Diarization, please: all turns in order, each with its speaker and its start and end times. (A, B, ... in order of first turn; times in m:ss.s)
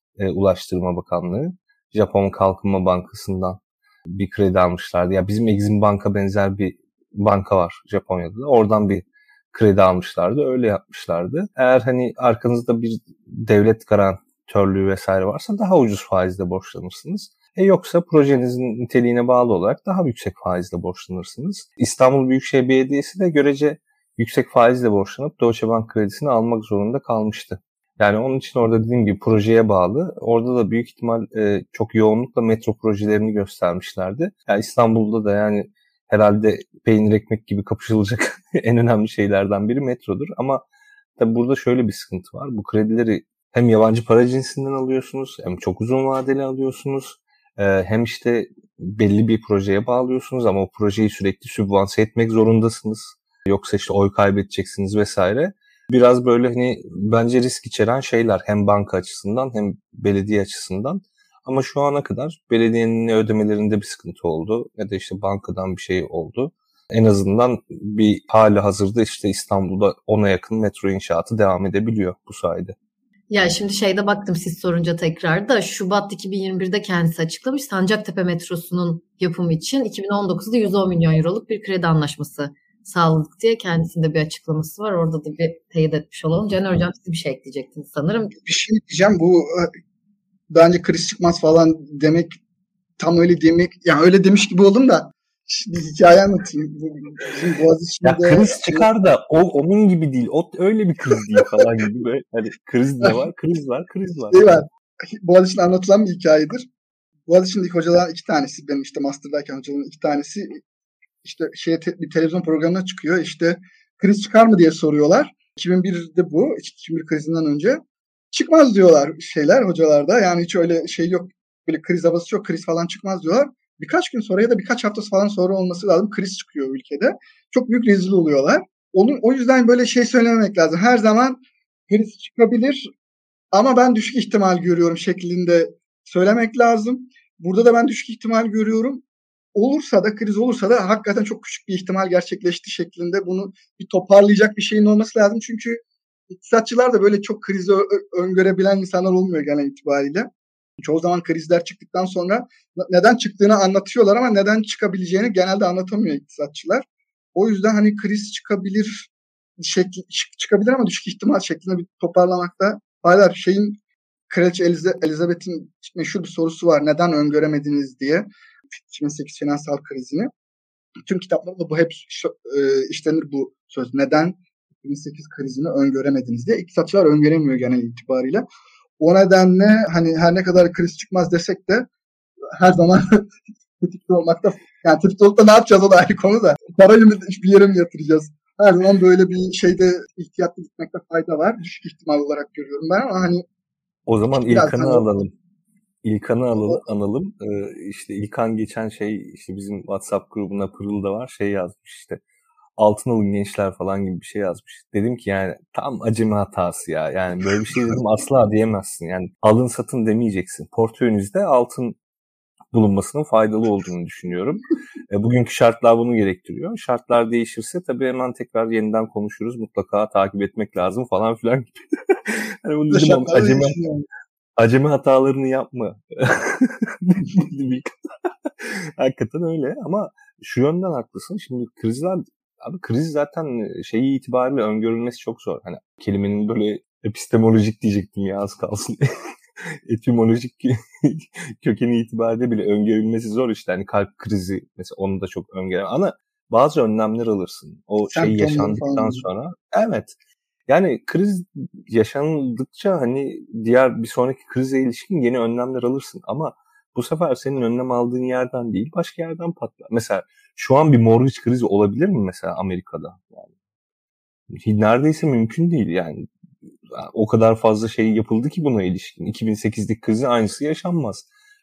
0:00.2-0:40.6 A
0:41.2-1:12.7 A
1:13.3-1:28.4 B
1:28.4-1:29.7 C
1:30.5-1:32.4 C
1:33.0-1:38.9 C
1:38.0-1:44.5 A
1:41.1-1:41.7 C
1:44.3-1:46.6 C
1:47.3-1:50.6 C
1:51.2-1:57.8 C
1:58.3-2:12.9 C
2:13.5-2:19.0 C
2:19.5-2:43.8 C
2:44.3-2:50.3 C
2:51.0-2:58.4 C
2:59.0-3:01.9 C
3:02.6-3:13.4 C
3:14.1-3:15.3 A
3:14.4-3:15.2 C
3:16.0-3:22.2 A
3:16.5-3:16.8 C
3:22.8-3:32.0 A
3:32.7-3:43.8 A
3:42.9-3:44.0 C
3:44.6-3:59.0 A
3:59.6-4:10.1 A
4:08.1-4:09.2 C
4:10.7-4:23.5 A
4:24.5-4:26.3 A
4:26.9-4:31.2 A